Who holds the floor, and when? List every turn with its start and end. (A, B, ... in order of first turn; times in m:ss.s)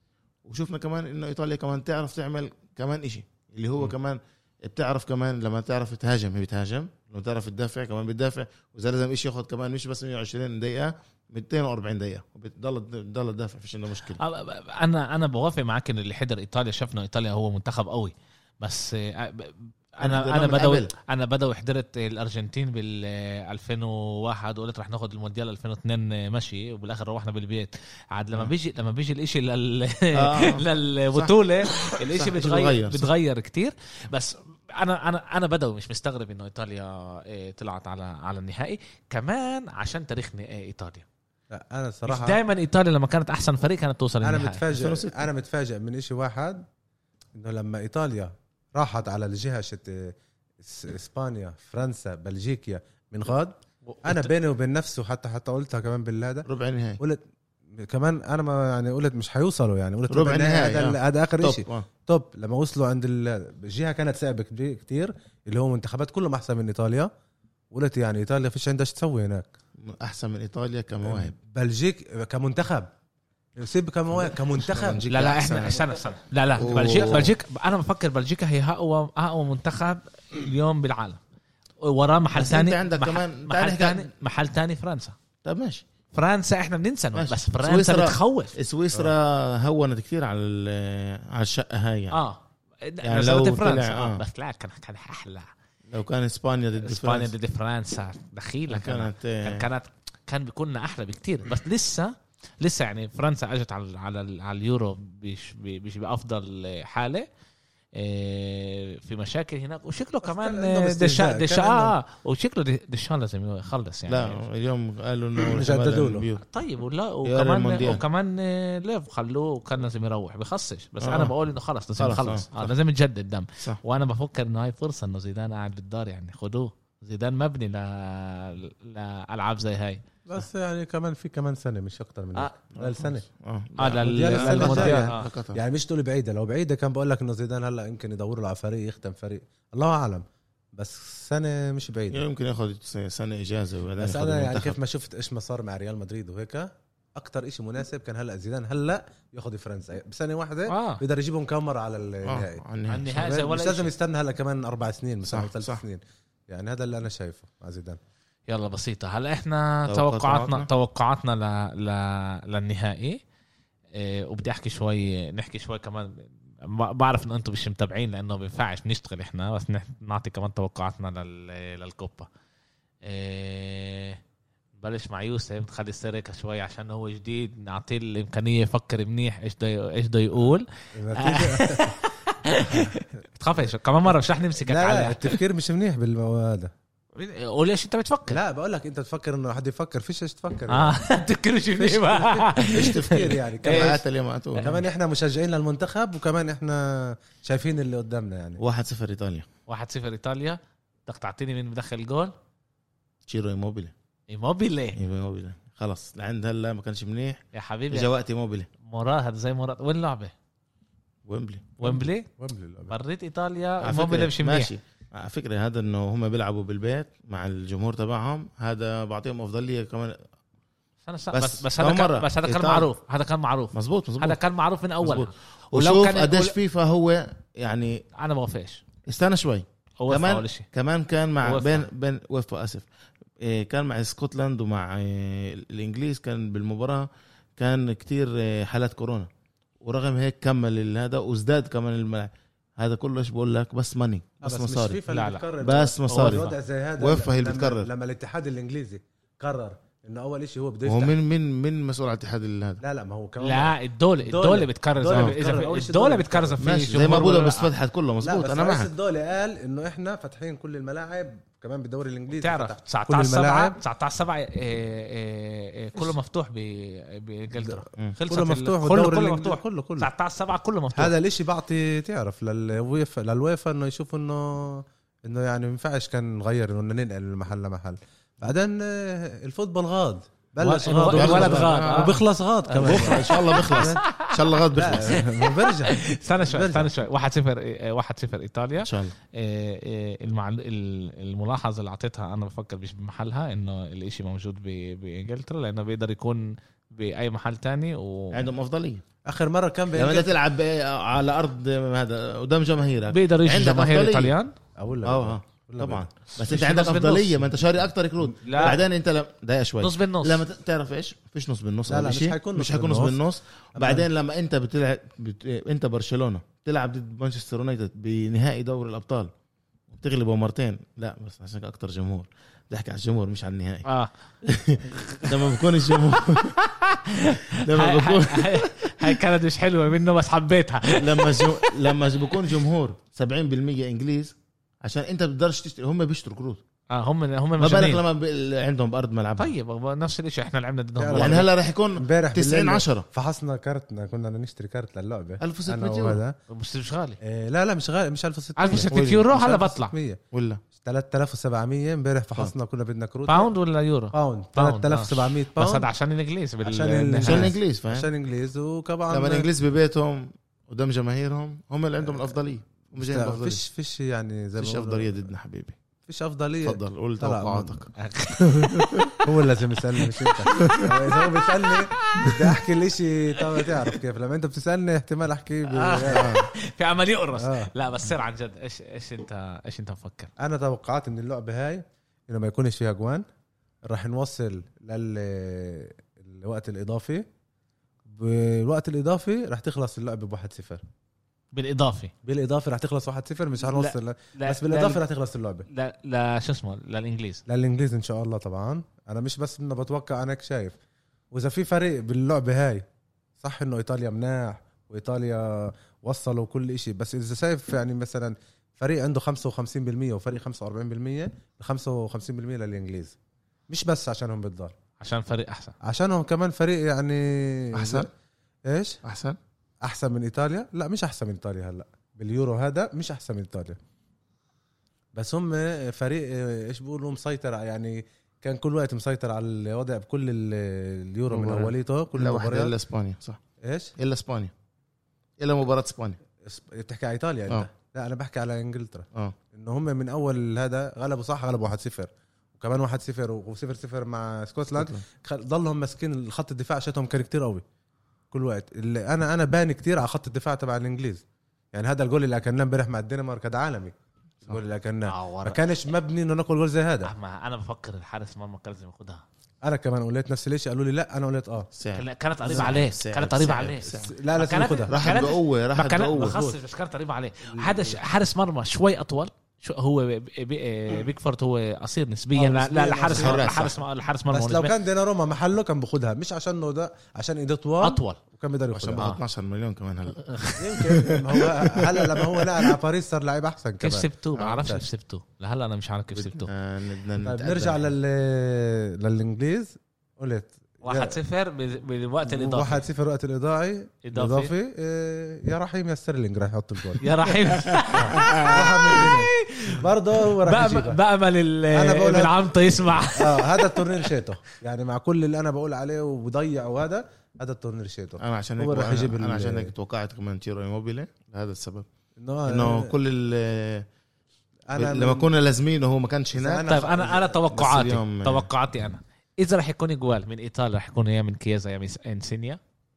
0:00.4-0:14.2 A
0:14.2-0:41.0 B
0:20.0-0:20.9 A
0:30.1-0:33.1 A
0:41.5-0:42.4 C
0:42.0-0:44.6 B
0:44.2-0:46.6 C
0:44.7-0:45.3 A
0:47.4-0:56.5 C
0:53.8-0:54.3 B
0:56.4-0:57.0 A
0:57.8-1:07.1 C
1:00.1-1:01.8 A
1:07.7-1:09.5 C
1:09.8-1:11.3 A
1:11.0-1:12.9 C
1:13.6-1:15.0 C
1:14.2-1:15.8 A
1:15.0-1:21.2 B
1:16.6-1:17.3 A
1:21.8-1:25.2 B
1:22.3-1:24.1 A
1:25.4-1:25.8 A
1:26.1-1:28.6 B
1:27.1-1:32.2 A
1:32.1-1:35.5 B
1:33.0-1:34.2 A
1:35.9-1:37.3 A
1:36.8-1:47.3 B
1:38.7-1:39.7 A
1:47.9-1:54.4 B
1:50.2-1:52.0 C
1:54.1-1:56.4 A
1:55.4-1:56.3 C
1:56.5-2:10.0 B
1:57.2-1:58.0 A
2:01.0-2:01.3 A
2:02.0-2:02.7 A
2:10.2-2:13.2 C
2:12.8-2:15.6 A
2:13.8-2:15.2 B
2:14.0-2:22.2 C
2:22.1-2:24.8 A
2:24.0-2:38.0 C
2:30.7-2:31.0 B
2:32.2-2:33.1 A
2:32.9-2:33.9 B
2:35.3-2:35.8 A
2:38.5-2:43.2 B
2:39.9-2:40.7 A
2:43.9-2:52.3 B
2:53.0-2:54.2 B
2:54.8-3:05.4 B
3:00.9-3:02.0 C
3:02.6-3:03.0 C
3:03.6-3:06.7 C
3:07.1-3:08.4 B
3:08.3-3:11.0 C
3:10.7-3:14.0 B
3:11.8-3:14.0 C
3:12.7-3:14.7 A
3:14.6-3:18.6 C
3:18.6-3:19.5 A
3:19.7-3:22.3 B
3:23.2-3:23.9 A
3:24.3-3:25.0 B
3:25.0-3:28.7 A
3:27.5-3:28.1 B
3:28.8-3:30.3 B
3:31.2-3:31.8 A
3:31.8-3:32.3 B
3:31.8-3:33.0 C
3:32.9-3:34.7 B
3:33.8-3:40.2 A
3:41.0-3:46.5 B
3:41.3-3:42.9 A
3:43.7-3:44.4 A
3:45.0-3:48.0 A
3:48.2-3:48.8 B
3:49.0-3:52.8 A
3:50.0-3:50.6 B
3:51.4-3:51.9 B
3:53.4-3:59.3 A
3:59.8-4:05.0 A
4:04.4-4:11.1 C
4:05.1-4:05.4 B
4:05.6-4:07.9 A
4:06.1-4:06.5 B
4:10.8-4:12.8 A
4:12.8-4:17.0 C
4:13.4-4:17.7 B
4:16.6-4:18.9 A
4:18.2-4:23.8 C
4:22.3-4:31.1 B
4:27.6-4:30.1 C
4:31.0-4:44.0 C
4:40.6-4:44.3 B
4:41.1-4:42.2 A
4:42.7-4:45.2 A
4:44.7-4:46.9 C
4:44.8-4:58.5 B
4:48.8-4:49.1 A
4:58.3-4:59.0 A
4:59.2-5:00.3 C
4:59.9-5:04.3 A
5:03.1-5:04.5 B
5:04.8-5:06.1 C
5:05.0-5:19.3 A
5:06.4-5:07.4 B
5:08.4-5:08.8 B
5:09.8-5:10.4 B
5:11.9-5:13.2 C
5:13.7-5:14.1 C
5:19.9-5:23.8 A
5:23.8-5:24.1 B
5:24.4-5:26.6 A
5:24.9-5:32.0 B
5:27.5-5:29.2 A
5:31.0-5:36.6 A
5:36.9-5:38.0 B
5:37.6-5:39.5 A
5:39.4-5:41.4 B
5:41.0-5:46.4 C
5:41.1-5:43.0 A
5:45.4-5:46.2 A
5:46.5-5:47.2 B
5:47.2-5:50.2 C
5:48.6-5:49.9 B
5:50.3-5:50.6 A
5:50.8-5:53.5 C
5:53.3-5:57.5 B
5:54.1-5:55.9 C
5:56.6-5:59.4 C
5:57.2-5:58.1 A
5:59.1-6:03.6 A
6:03.0-6:05.3 C
6:04.6-6:05.8 A
6:06.1-6:07.9 C
6:06.6-6:07.9 A
6:08.0-6:09.2 B
6:08.6-6:08.9 A
6:09.2-6:16.3 C
6:10.0-6:12.5 B
6:10.6-6:10.8 A
6:13.3-6:14.0 B
6:15.7-6:20.3 B
6:16.1-6:16.5 A
6:17.4-6:17.7 C
6:20.4-6:23.2 C
6:23.9-6:27.2 C
6:28.0-6:30.8 C
6:31.5-6:32.1 B
6:32.2-6:35.7 C
6:33.6-6:35.0 B
6:35.7-6:37.4 B
6:37.5-6:40.8 C
6:41.3-6:42.8 C
6:43.4-6:53.2 C
6:53.7-6:54.7 C
6:55.0-6:55.7 B
6:55.8-6:58.1 C
6:57.7-6:58.1 A
6:58.7-6:59.0 C
6:59.0-6:59.4 A
6:59.8-7:03.8 C
7:05.1-7:12.7 C
7:11.3-7:13.4 A
7:13.6-7:13.9 C
7:14.0-7:14.5 A
7:15.4-7:16.2 A
7:16.4-7:27.6 C
7:24.8-7:25.0 A
7:28.3-7:31.2 C
7:31.7-7:37.1 C
7:35.1-7:35.9 B
7:37.0-7:39.2 B
7:39.6-7:41.7 C
7:41.7-7:44.1 A
7:41.9-7:54.8 B
7:43.8-7:45.0 C
7:44.9-7:46.4 A
7:46.2-7:46.6 C
7:47.5-7:48.0 C
7:52.3-7:53.5 C
7:53.1-7:53.7 A
7:54.3-7:59.1 C
7:57.8-7:58.2 B
7:58.7-8:02.7 A
8:00.3-8:00.8 B
8:00.6-8:04.1 C
8:03.8-8:06.5 B
8:04.4-8:04.6 A
8:06.1-8:07.9 A
8:07.2-8:11.2 C
8:10.8-8:12.8 B
8:12.2-8:17.0 C
8:14.0-8:14.5 B
8:17.0-8:24.1 B
8:17.5-8:18.5 A
8:17.9-8:21.0 C
8:21.7-8:22.3 C
8:23.1-8:29.7 C
8:28.2-8:31.9 A
8:32.2-8:32.9 C
8:32.4-8:33.9 A
8:34.7-8:35.3 C
8:34.7-8:36.7 A
8:36.3-8:37.5 C
8:36.6-8:42.6 B
8:37.5-8:38.5 A